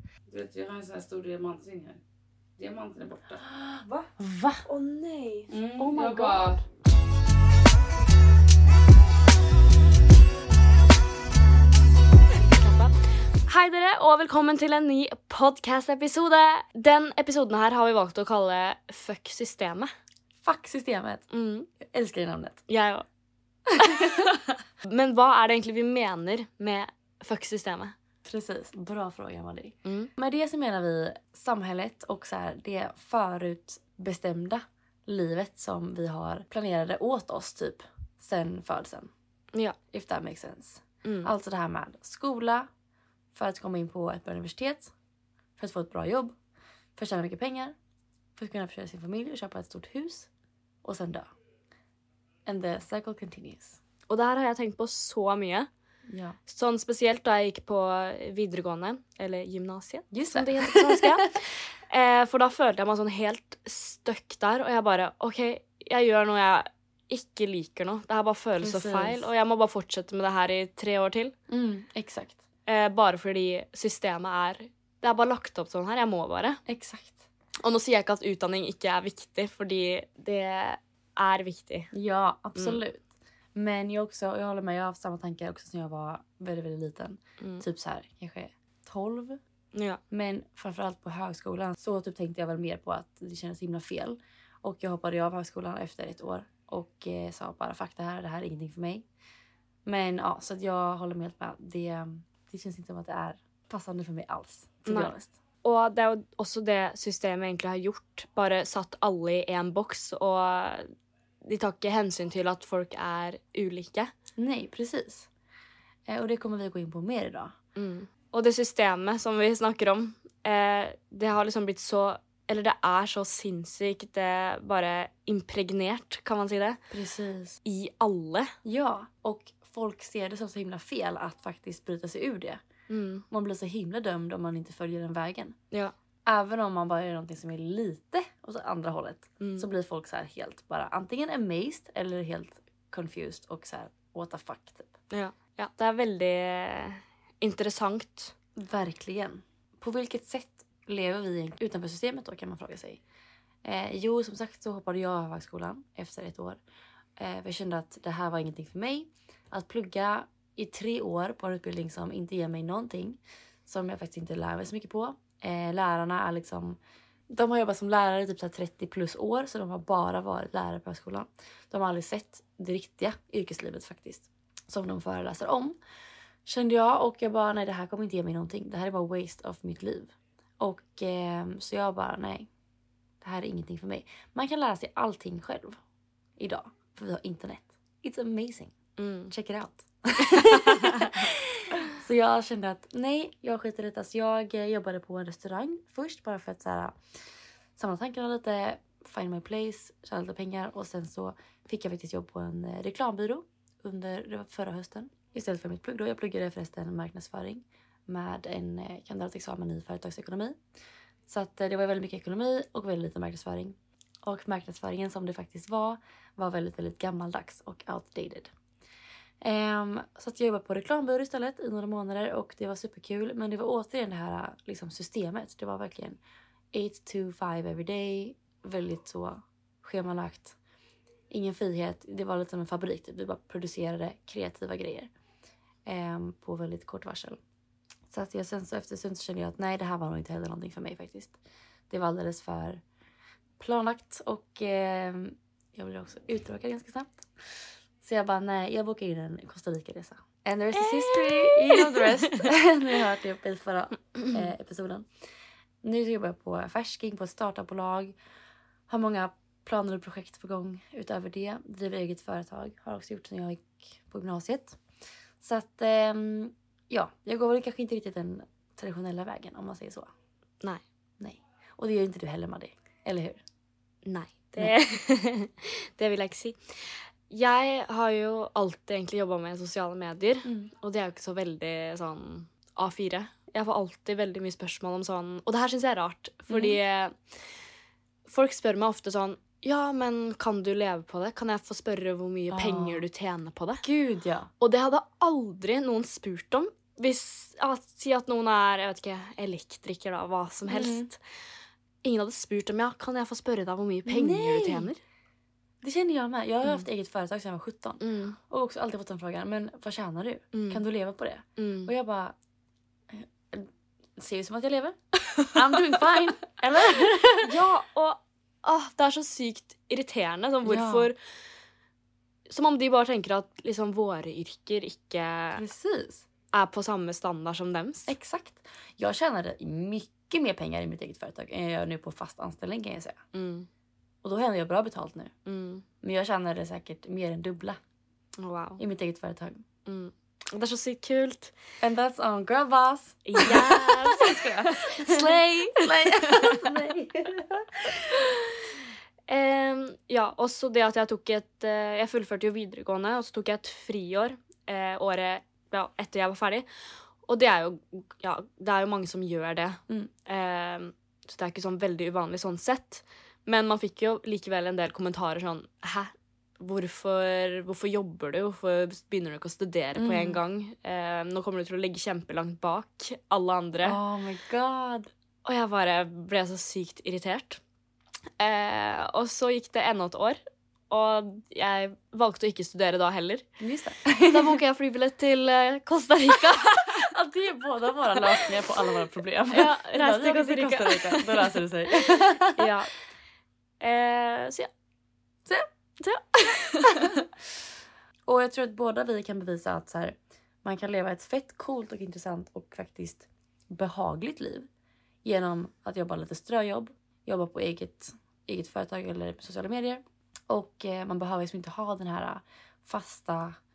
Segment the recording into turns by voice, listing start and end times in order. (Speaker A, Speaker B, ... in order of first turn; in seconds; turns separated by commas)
Speaker A: 0.3-2.0, Speaker A: 2.6-3.5, Speaker B: 3.5-4.7, Speaker C: 4.7-6.1, Speaker A: 5.5-6.6, Speaker B: 5.8-6.5, Speaker C: 12.3-19.9, Speaker B: 20.4-22.6, Speaker C: 21.3-21.7, Speaker C: 22.7-23.1, Speaker C: 23.7-27.9, Speaker B: 23.8-24.4, Speaker B: 28.2-39.1, Speaker C: 29.8-30.1, Speaker B: 39.9-42.7, Speaker C: 41.0-41.3, Speaker B: 43.3-44.9, Speaker B: 45.6-46.4, Speaker B: 47.0-47.8, Speaker B: 48.4-50.3, Speaker B: 50.8-51.3, Speaker B: 52.5-53.8, Speaker C: 54.1-55.7, Speaker B: 56.1-56.4, Speaker C: 56.5-71.3, Speaker B: 60.1-61.4, Speaker B: 68.6-69.3, Speaker B: 71.5-72.4, Speaker C: 72.7-76.6, Speaker B: 76.7-77.2, Speaker C: 77.6-81.9, Speaker B: 81.9-89.4, Speaker C: 82.5-82.8, Speaker C: 87.4-87.7, Speaker C: 89.7-90.0, Speaker B: 90.1-99.0, Speaker B: 99.8-105.4, Speaker C: 104.9-110.9, Speaker C: 111.4-114.1, Speaker B: 114.4-115.3, Speaker B: 116.1-117.5, Speaker C: 117.8-126.8, Speaker B: 126.9-127.6, Speaker C: 127.6-128.5, Speaker B: 128.6-132.6, Speaker C: 132.9-133.2, Speaker B: 133.3-135.6, Speaker B: 136.3-144.9, Speaker C: 139.4-139.7, Speaker C: 145.1-148.3, Speaker B: 148.6-153.0, Speaker B: 153.6-156.6, Speaker B: 157.2-166.8, Speaker B: 167.3-175.8, Speaker B: 176.5-182.5, Speaker B: 183.2-185.8, Speaker B: 186.4-188.8, Speaker C: 189.0-189.3, Speaker B: 189.3-197.0, Speaker C: 190.2-191.3, Speaker B: 197.8-210.6, Speaker B: 211.3-218.5, Speaker B: 219.4-226.2, Speaker B: 226.7-230.6, Speaker B: 231.3-235.1, Speaker B: 235.9-237.4, Speaker B: 238.1-241.4, Speaker B: 241.9-242.8, Speaker B: 243.6-247.3, Speaker B: 248.0-255.1, Speaker C: 250.8-252.5, Speaker B: 255.8-258.2, Speaker B: 258.9-264.8, Speaker B: 265.4-270.1, Speaker B: 271.2-273.4, Speaker C: 274.1-287.2, Speaker B: 280.4-280.7, Speaker B: 286.5-286.8, Speaker C: 288.3-293.8, Speaker B: 292.5-293.0, Speaker B: 293.8-294.5, Speaker C: 294.6-301.2, Speaker B: 300.7-301.1, Speaker C: 302.0-305.0, Speaker B: 304.1-304.9, Speaker B: 305.8-312.4, Speaker C: 308.0-308.4, Speaker C: 310.5-310.8, Speaker C: 311.6-311.9, Speaker B: 313.1-317.6, Speaker C: 317.4-321.2, Speaker B: 320.6-321.1, Speaker C: 322.5-325.6, Speaker B: 325.6-326.3, Speaker C: 326.5-328.1, Speaker B: 328.1-333.2, Speaker C: 333.3-333.7, Speaker B: 334.2-335.3, Speaker C: 335.5-335.9, Speaker B: 336.0-337.8, Speaker C: 338.4-338.8, Speaker B: 338.8-339.6, Speaker C: 339.9-341.5, Speaker B: 341.8-348.3, Speaker C: 343.3-346.7, Speaker C: 349.3-356.7, Speaker C: 357.2-374.0, Speaker B: 369.9-370.4, Speaker B: 373.8-375.1, Speaker C: 375.4-377.6, Speaker C: 378.4-380.4, Speaker C: 380.9-383.5, Speaker B: 383.6-384.6, Speaker C: 384.3-387.1, Speaker B: 387.0-392.7, Speaker C: 388.2-388.4, Speaker C: 389.5-392.9, Speaker C: 393.8-394.7, Speaker C: 396.0-397.2, Speaker B: 396.8-397.3, Speaker B: 398.3-404.7, Speaker B: 405.2-413.6